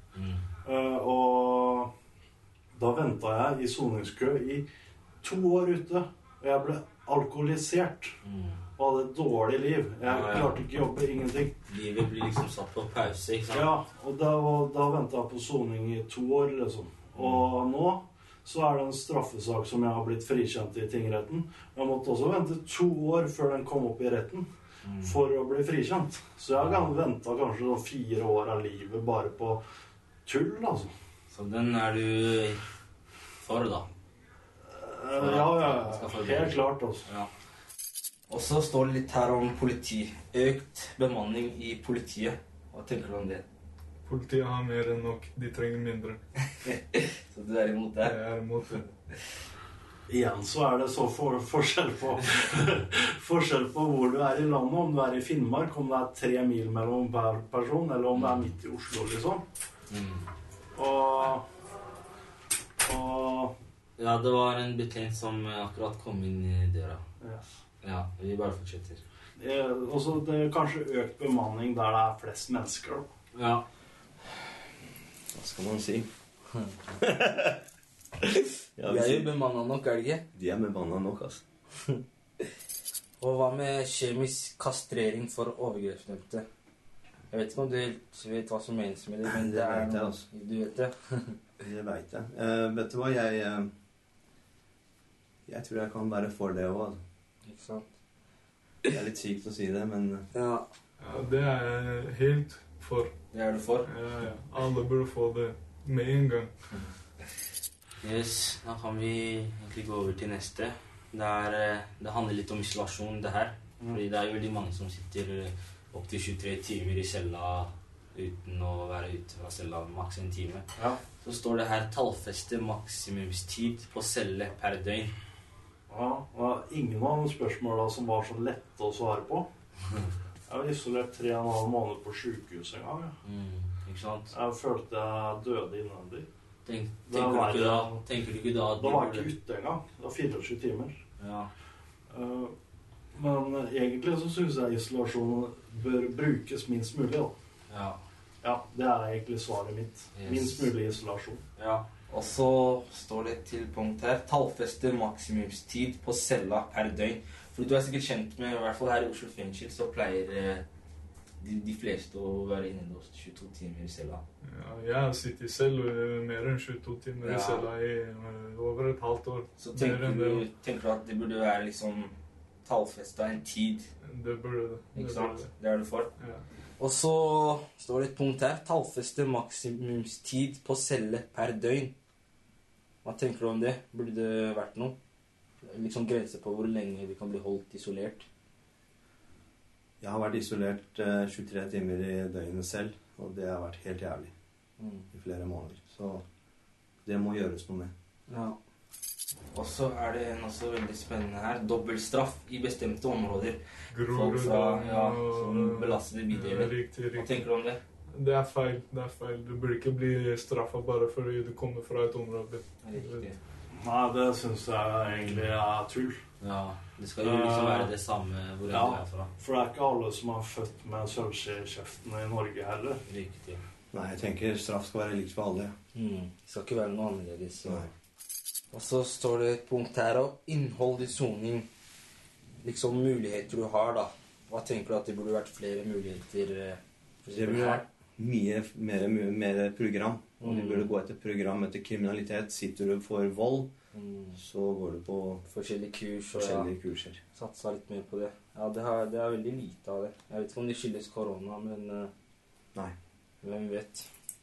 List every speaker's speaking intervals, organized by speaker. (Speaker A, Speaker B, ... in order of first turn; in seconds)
Speaker A: 0.1-0.4, 8.2-8.6, 10.0-10.6, 11.7-13.7, 17.2-17.5, 24.9-25.2, 26.6-27.0, 31.3-32.6, 33.4-33.9, 35.1-37.3, 38.3-43.4, 46.6-48.2, 58.1-58.5, 59.9-60.2, 64.0-67.0, 67.8-69.0, 73.3-73.6, 78.9-80.2, 83.2-86.4, 87.3-91.4, 97.4-97.9, 100.3-100.7, 103.3-103.9, 108.0-125.1, 133.2-134.3, 136.7-139.3, 141.2-141.5, 147.7-148.0, 150.2-150.7, 151.6-160.6, 161.4-164.2, 167.2-167.7, 169.6-172.1, 172.6-173.9, 174.9-176.1, 176.8-181.9, 183.0-185.0, 185.6-188.3, 194.8-195.1, 198.3-198.6, 199.5-207.8, 212.8-213.4, 215.1-215.5, 216.4-219.3, 223.1-223.6, 225.9-227.9, 228.7-231.7, 232.6-237.8, 240.4-240.9, 243.9-244.4, 245.5-246.7, 247.3-252.1, 253.4-254.1
Speaker B: 0.6-1.9, 2.7-4.7, 5.2-8.2, 8.8-11.6, 13.5-24.5, 25.0-29.6, 30.2-30.9, 34.7-37.1, 50.1-59.4, 60.7-61.5, 62.8-63.5, 67.2-67.5, 69.4-73.1, 125.9-129.5, 130.5-133.2, 134.3-136.3, 137.1-138.0, 138.8-141.0, 142.1-142.5, 143.1-147.3, 148.4-151.4, 213.7-216.2, 217.2-217.9, 218.7-223.0
Speaker C: 44.0-46.2, 48.0-48.9, 101.0-103.2, 103.8-106.5, 164.5-170.5, 174.0-175.5, 176.2-176.4, 203.9-207.5, 208.1-213.3
Speaker D: 75.3-76.1, 77.0-77.6, 78.8-79.3, 80.3-81.4, 89.3-90.2, 91.6-93.7, 95.5-97.0, 98.9-100.2, 190.0-194.3, 195.1-196.2, 197.0-197.9, 223.9-225.8, 237.2-243.7, 244.3-245.4, 246.3-247.2